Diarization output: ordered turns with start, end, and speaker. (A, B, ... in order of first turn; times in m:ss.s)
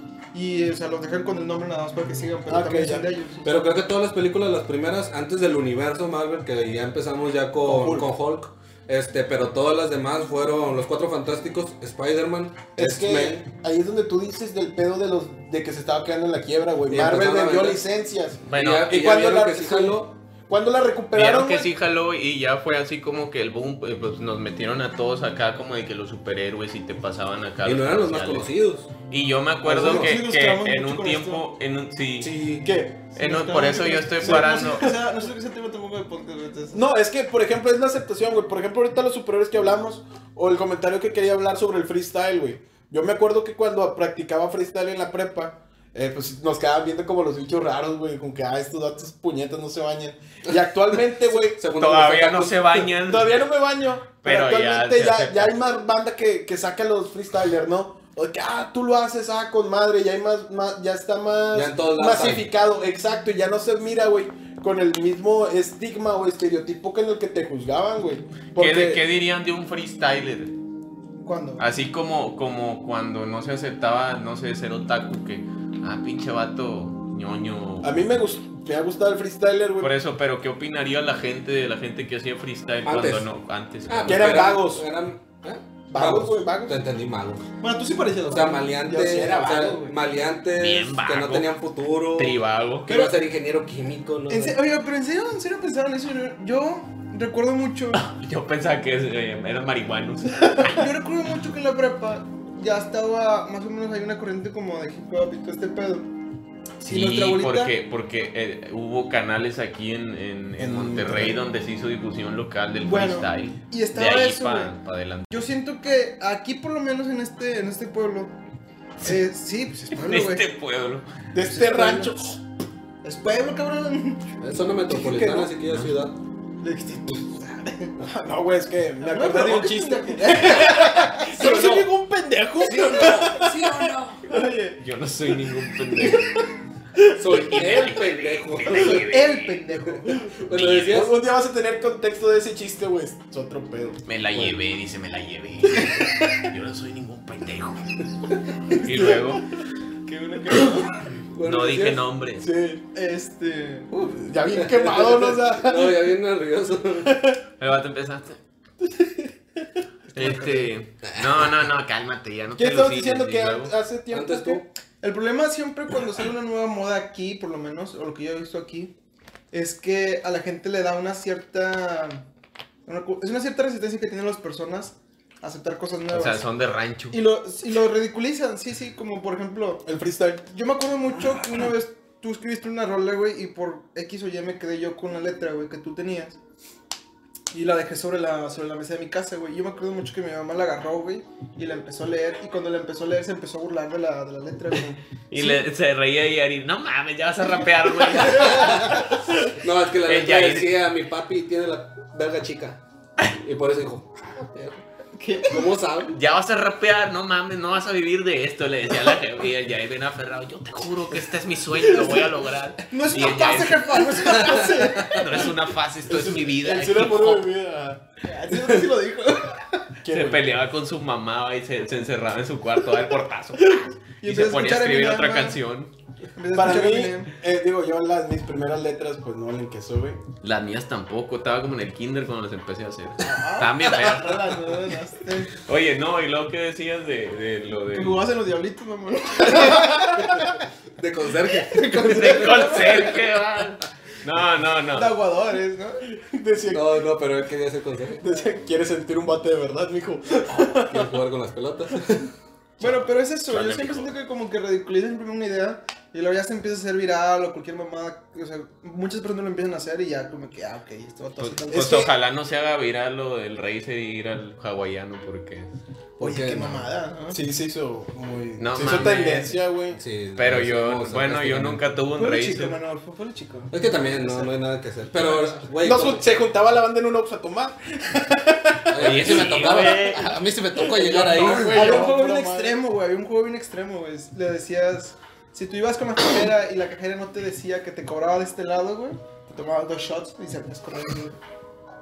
0:00.3-0:03.5 A
0:02.5-0:03.1 B
0:03.4-0:13.4 C
0:07.6-0:08.1 B
0:12.8-0:21.7 B
0:16.9-0:17.8 C
0:18.5-0:18.9 D
0:18.5-0:20.1 C
0:21.1-0:28.5 D
0:27.6-0:28.9 C
0:29.1-0:32.3 D
0:29.7-0:31.4 A
0:29.7-0:30.1 B
0:29.8-0:30.1 C
0:32.2-0:32.7 C
0:32.6-0:33.7 B
0:33.2-0:34.9 D
0:33.2-0:36.8 A
0:34.2-0:35.0 B
0:36.7-0:51.6 B
0:51.4-0:52.9 C
0:51.7-0:53.4 D
0:53.1-1:09.0 B
0:54.2-0:55.5 D
1:01.5-1:02.4 C
1:08.6-1:10.5 D
1:11.2-1:11.6 A
1:11.6-1:17.9 D
1:17.8-1:19.9 B
1:19.8-1:24.5 D
1:22.8-1:23.3 C
1:23.9-1:27.4 C
1:24.0-1:24.8 B
1:25.9-1:26.8 B
1:27.6-1:29.9 A
1:28.2-1:34.6 C
1:28.8-1:29.9 B
1:30.6-1:31.5 D
1:32.2-1:32.9 D
1:34.3-1:38.0 A
1:37.9-1:40.8 D
1:40.5-1:46.1 A
1:46.8-1:55.5 D
1:46.9-1:47.7 A
1:50.6-1:51.4 B
1:52.8-1:54.7 A
1:55.3-1:58.3 A
1:59.0-2:00.5 A
1:59.9-2:01.0 D
2:01.3-2:02.4 B
2:01.4-2:02.1 A
2:03.0-2:04.4 A
2:04.4-2:06.2 C
2:04.9-2:05.5 A
2:06.6-2:08.0 A
2:08.0-2:11.9 B
2:09.0-2:13.7 A
2:11.4-2:11.9 C
2:12.6-2:14.3 C
2:12.9-2:13.4 B
2:14.3-2:14.8 A
2:14.8-2:16.3 D
2:17.2-2:19.1 C
2:17.3-2:19.6 D
2:18.8-2:20.3 A
2:20.1-2:21.1 C
2:20.5-2:21.0 D
2:20.7-2:24.0 B
2:24.1-2:28.1 D
2:26.0-2:26.4 B
2:28.7-2:29.1 A
2:28.8-2:29.4 D
2:30.0-2:31.1 A
2:31.3-2:32.0 C
2:31.4-2:32.5 D
2:32.4-2:32.8 B
2:32.9-2:34.1 A
2:33.9-2:36.2 B
2:34.5-2:37.2 C
2:37.0-2:37.4 B
2:37.6-2:38.4 D
2:38.8-2:39.3 B
2:40.2-2:40.6 A
2:40.2-2:43.7 D
2:40.2-2:40.4 B
2:41.1-2:41.5 C
2:42.6-2:44.6 B
2:44.1-2:44.6 C
2:45.0-2:48.9 A
2:49.5-2:52.2 A
2:52.9-2:56.4 A
2:56.1-2:57.2 D
2:57.1-2:59.8 A
2:59.8-3:00.5 B
3:00.5-3:06.4 A
3:07.5-3:15.6 A
3:15.3-3:19.2 D
3:18.2-3:19.1 A
3:18.4-3:22.8 C
3:20.0-3:20.7 D
3:23.3-3:24.8 C
3:25.2-3:25.7 A
3:25.5-3:26.2 C
3:26.1-3:37.5 D
3:31.8-3:32.3 A
3:32.8-3:35.5 A
3:34.4-3:35.0 C
3:36.1-3:38.0 B
3:38.2-3:39.9 A
3:40.0-3:40.5 B
3:40.1-3:45.9 D
3:43.7-3:45.6 A
3:46.4-3:47.3 A
3:46.5-3:50.2 B
3:50.4-3:54.6 D
3:53.2-3:55.5 A
3:55.6-3:58.2 D
3:57.9-4:00.5 A
3:59.5-4:00.4 B
3:59.8-4:03.2 C
4:01.5-4:03.2 A
4:02.0-4:05.1 D
4:04.9-4:06.0 A
4:06.1-4:07.0 B
4:06.7-4:08.2 C
4:08.2-4:11.1 B
4:10.9-4:12.3 C
4:12.8-4:22.1 A
4:13.5-4:14.1 D
4:21.4-4:25.7 D
4:21.7-4:22.1 B
4:26.2-4:26.9 C
4:26.2-4:27.4 A
4:27.3-4:30.0 B
4:28.6-4:29.6 D
4:30.0-4:31.8 C
4:30.4-4:32.8 D
4:32.2-4:34.6 A
4:33.7-4:36.3 C
4:35.1-4:35.7 A
4:35.8-4:39.4 B
4:38.9-4:42.1 C
4:39.0-4:40.3 D
4:39.6-4:40.3 A
4:40.9-4:42.8 B
4:41.3-4:51.4 A